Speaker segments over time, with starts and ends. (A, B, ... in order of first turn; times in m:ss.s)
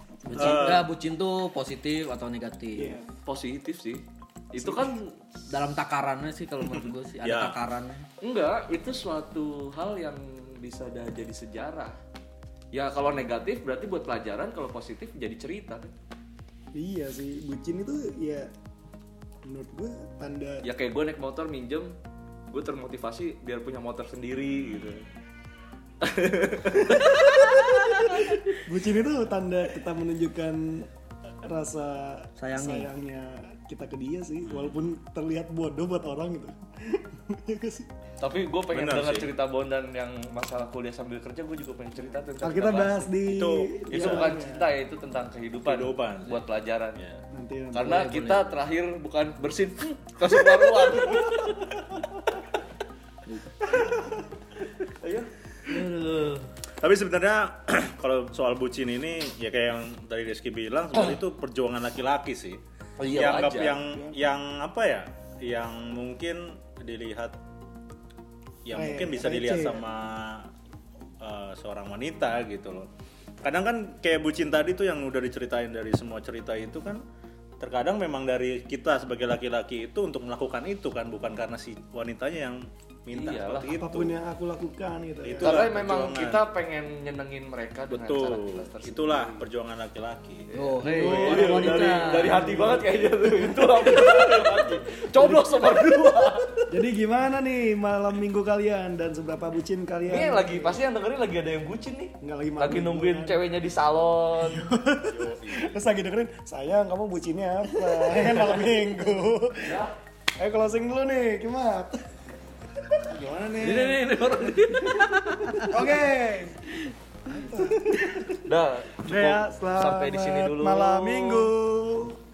0:00.3-0:02.9 A
0:00.4-0:00.9 B
0:02.8-0:03.1 C
0:03.2-0:05.1 D
0:05.5-0:08.1 A
0:06.6-0:07.6 B
0:08.2-0:12.0 D
0:12.7-0:15.9 D
0:16.7-0:18.5 C
0:19.4-0:20.6 C
0:20.6-0:21.9 D
0:22.5-0:25.0 D
0:24.5-0:25.0 B
0:26.0-0:28.5 D
0:28.6-0:30.9 C
0:31.4-0:37.9 C
0:32.4-0:32.9 A
0:34.4-0:34.8 B
0:38.2-0:43.1 D
0:38.7-0:39.3 B
0:42.4-0:44.6 C
0:43.2-0:44.3 B
0:43.9-0:47.0 D
0:45.6-0:46.4 B
0:47.3-0:48.1 C
0:47.7-0:51.7 D
0:47.8-0:48.5 A
0:53.3-0:53.8 A
0:54.8-0:55.8 D
0:55.7-0:56.5 A
0:56.8-1:07.3 B
1:03.0-1:03.8 D
1:03.8-1:04.2 C
1:08.6-1:10.5 B
1:08.7-1:09.8 C
1:11.2-1:12.9 B
1:13.4-1:17.0 B
1:17.6-1:24.2 B
1:23.1-1:23.7 D
1:23.8-1:25.6 C
1:25.2-1:26.4 B
1:25.4-1:29.4 D
1:27.9-1:32.0 B
1:30.5-1:36.7 D
1:30.5-1:32.7 A
1:31.0-1:33.1 C
1:34.0-1:34.8 B
1:35.1-1:35.5 C
1:36.7-1:40.8 C
1:40.1-1:44.7 D
1:42.2-1:43.4 C
1:44.4-1:49.8 C
1:45.0-1:45.8 B
1:48.0-1:48.6 D
1:49.6-1:49.9 D
1:50.4-1:52.0 C
1:53.1-1:54.0 B
1:53.6-1:55.6 D
1:55.6-1:56.7 C
1:57.3-1:58.0 C
1:57.8-1:58.2 B
1:58.4-2:01.5 D
1:59.0-2:02.1 C